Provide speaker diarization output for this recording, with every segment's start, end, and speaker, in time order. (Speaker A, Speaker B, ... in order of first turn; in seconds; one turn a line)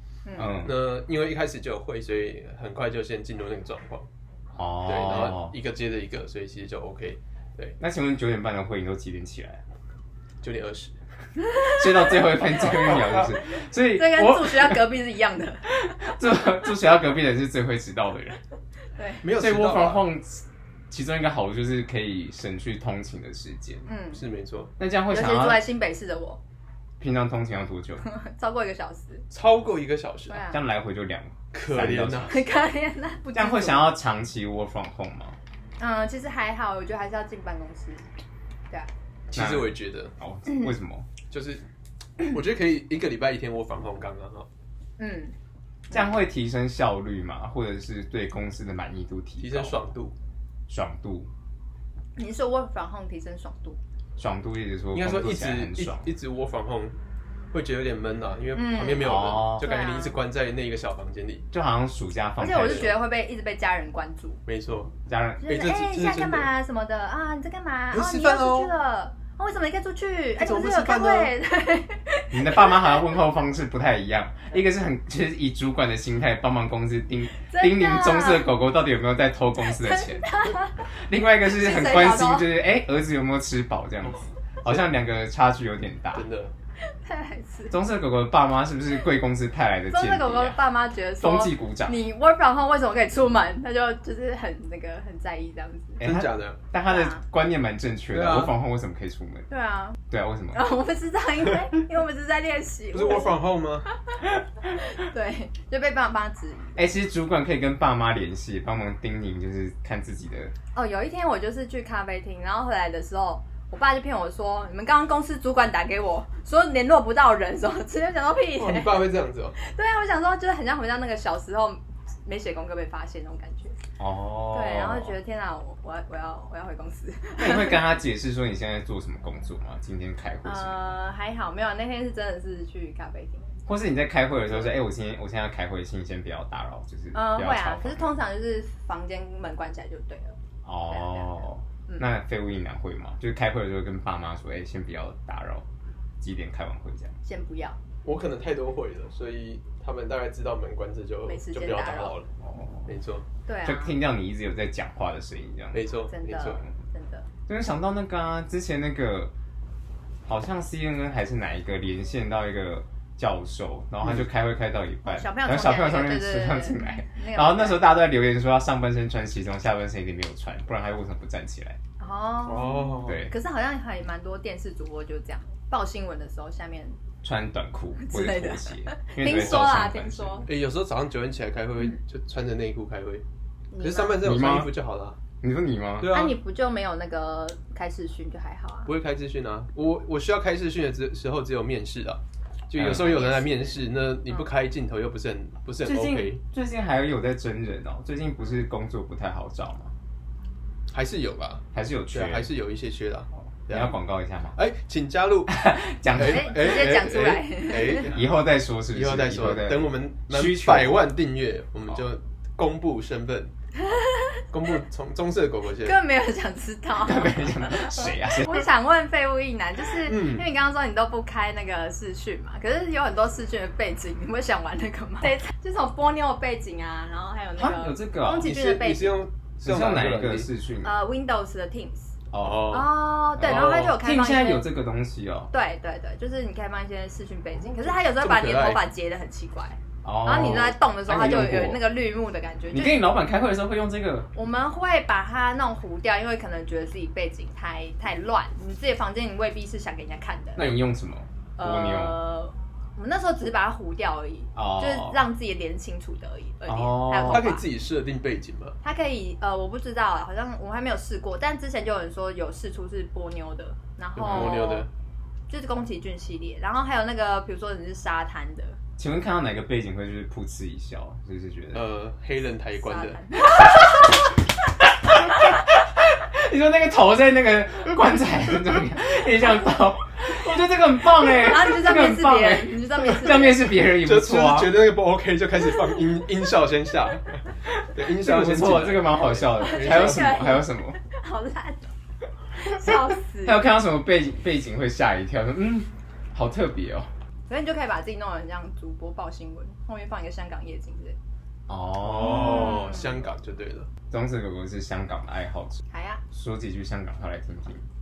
Speaker A: 0.3-0.6
Speaker B: 0.4-0.8
Speaker C: 0.4-4.1
Speaker B: 4.6-5.5
Speaker C: 4.8-7.8
Speaker B: 7.8-9.6
Speaker C: 10.4-10.9
Speaker B: 11.7-14.9
Speaker A: 12.0-12.7
Speaker A: 13.9-15.7
Speaker B: 15.7-18.4
Speaker A: 19.0-19.3
Speaker C: 19.2-20.1
Speaker B: 19.4-23.9
Speaker A: 23.9-24.2
Speaker C: 24.1-24.7
Speaker B: 24.8-25.7
Speaker A: 25.1-26.4
Speaker B: 27.0-28.0
Speaker A: 28.0-29.2
Speaker C: 29.3-30.5
Speaker A: 30.3-30.6
Speaker B: 30.5-32.3
Speaker C: 31.5-32.5
Speaker A: 32.3-34.0
Speaker B: 33.3-35.4
Speaker A: 35.8-38.0
Speaker C: 39.3-40.1
Speaker B: 39.3-41.1
Speaker C: 41.3-41.6
Speaker C: 42.3-44.5
Speaker A: 45.0-45.4
Speaker B: 45.9-49.9
Speaker C: 49.4-50.1
Speaker B: 50.7-51.3
Speaker A: 52.2-53.8
Speaker B: 54.2-56.1
Speaker C: 54.9-57.0
Speaker C: 57.5-61.5
Speaker A: 58.5-60.2
Speaker B: 59.0-59.7
Speaker B: 61.5-63.0
Speaker A: 62.4-64.4
Speaker C: 62.6-62.9
Speaker C: 64.5-64.9
Speaker B: 65.1-65.5
Speaker A: 65.4-73.2
Speaker C: 65.5-66.5
Speaker C: 67.9-68.7
Speaker C: 70.4-71.3
Speaker B: 72.3-80.3
Speaker A: 77.4-78.5
Speaker A: 79.6-80.9
Speaker B: 81.0-86.3
Speaker A: 81.4-82.5
Speaker C: 84.1-84.8
Speaker C: 86.1-86.5
Speaker A: 86.8-87.7
Speaker B: 87.7-90.6
Speaker A: 89.9-96.0
Speaker B: 91.2-92.0
Speaker C: 96.0-96.6
Speaker B: 96.0-99.5
Speaker A: 96.8-97.2
Speaker C: 98.1-98.6
Speaker A: 99.5-100.0
Speaker B: 100.1-100.7
Speaker A: 100.5-103.4
Speaker C: 102.9-103.9
Speaker A: 104.7-106.9
Speaker B: 106.8-110.5
Speaker A: 110.7-119.1
Speaker C: 118.6-119.6
Speaker A: 119.6-123.8
Speaker B: 124.0-125.2
Speaker A: 124.5-127.9
Speaker B: 127.4-130.9
Speaker A: 130.4-133.6
Speaker B: 133.7-138.2
Speaker A: 137.1-140.4
Speaker B: 140.7-145.7
Speaker A: 140.9-142.1
Speaker B: 146.2-147.2
Speaker A: 147.2-147.8
Speaker C: 148.0-152.3
Speaker A: 151.2-152.2
Speaker B: 152.4-152.9
Speaker C: 152.9-153.3
Speaker A: 153.5-154.0
Speaker B: 153.6-155.8
Speaker C: 155.7-156.7
Speaker A: 156.1-157.3
Speaker B: 157.5-159.3
Speaker B: 160.3-171.8
Speaker A: 165.1-168.0
Speaker A: 172.0-177.0
Speaker C: 172.4-173.3
Speaker B: 173.0-173.3
Speaker B: 177.2-180.5
Speaker A: 178.0-180.5
Speaker C: 179.2-179.7
Speaker C: 180.5-183.2
Speaker A: 183.7-184.2
Speaker C: 183.8-185.2
Speaker B: 184.2-184.7
Speaker B: 185.4-186.1
Speaker C: 186.0-186.4
Speaker A: 186.1-188.9
Speaker C: 188.9-196.4
Speaker B: 192.8-193.1
Speaker A: 192.8-194.5
Speaker B: 195.8-199.9
Speaker C: 200.9-204.0
Speaker B: 201.7-202.5
Speaker B: 203.7-204.6
Speaker C: 204.6-205.6
Speaker B: 205.5-207.0
Speaker C: 206.1-208.3
Speaker A: 206.2-208.1
Speaker B: 208.0-211.1
Speaker C: 208.9-213.5
Speaker A: 213.9-214.4
Speaker C: 214.5-216.0
Speaker A: 215.8-229.2
Speaker B: 217.0-218.6
Speaker C: 220.1-220.5
Speaker B: 227.6-228.5
Speaker C: 228.4-230.5
Speaker B: 229.6-230.9
Speaker A: 230.8-234.7
Speaker B: 232.3-232.7
Speaker C: 232.4-234.0
Speaker B: 233.4-235.5
Speaker A: 235.5-243.2
Speaker C: 237.7-238.8
Speaker B: 240.0-241.8
Speaker B: 242.7-244.3
Speaker A: 244.3-250.8
Speaker B: 250.6-252.2
Speaker A: 251.6-257.6
Speaker B: 254.6-255.2
Speaker B: 256.7-257.5
Speaker C: 257.2-258.8
Speaker A: 258.8-264.9
Speaker C: 264.2-264.9
Speaker B: 264.3-264.5
Speaker A: 265.5-268.8
Speaker B: 269.0-271.8
Speaker C: 271.7-273.2
Speaker A: 272.7-274.1
Speaker B: 275.1-275.4
Speaker B: 276.0-284.8
Speaker A: 281.2-283.7
Speaker C: 283.8-290.4
Speaker B: 287.7-291.0
Speaker A: 289.6-291.9
Speaker A: 292.5-293.7
Speaker B: 293.4-297.1
Speaker A: 297.5-301.2
Speaker B: 301.7-302.8
Speaker C: 302.0-303.9
Speaker A: 302.3-303.2
Speaker B: 304.1-307.8
Speaker A: 305.9-306.2